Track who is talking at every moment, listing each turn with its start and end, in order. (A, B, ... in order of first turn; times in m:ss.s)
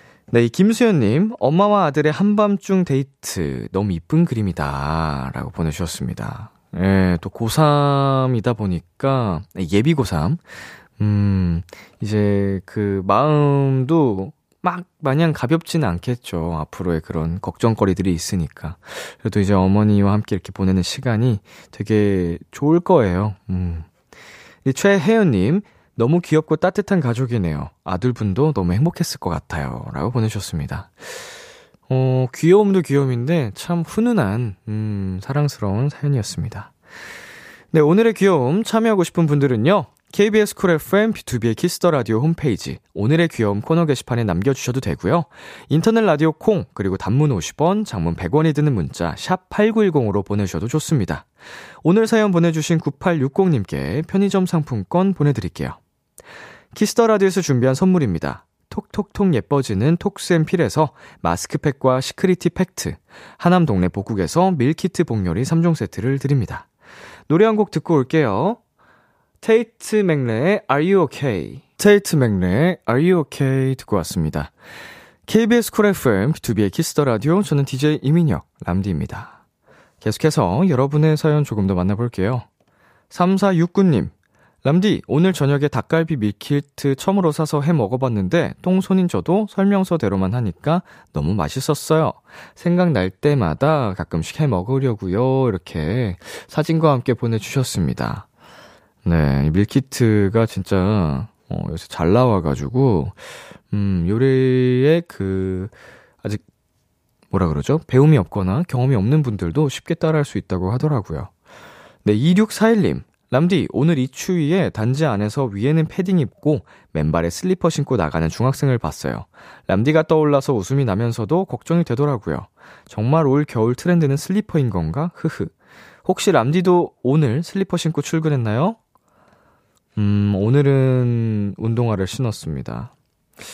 0:00.3-0:10.4 A
0:11.0-0:23.9 A
0:24.6-0:31.2 A
0:31.9-0:36.7 A
0:37.7-0:51.3 A
0:51.8-0:55.8 A
0:56.7-1:06.7 A
1:07.3-1:08.6 A
1:09.4-1:14.5 A
1:15.3-1:19.3 A
1:20.0-1:22.4 A
1:23.1-1:24.1 A
1:24.6-1:38.2 A
1:39.0-1:43.2 A
1:43.7-1:46.4 A
1:47.3-1:51.3 A
1:52.0-2:05.5 A
2:06.0-2:08.8 A
2:10.0-2:12.9 A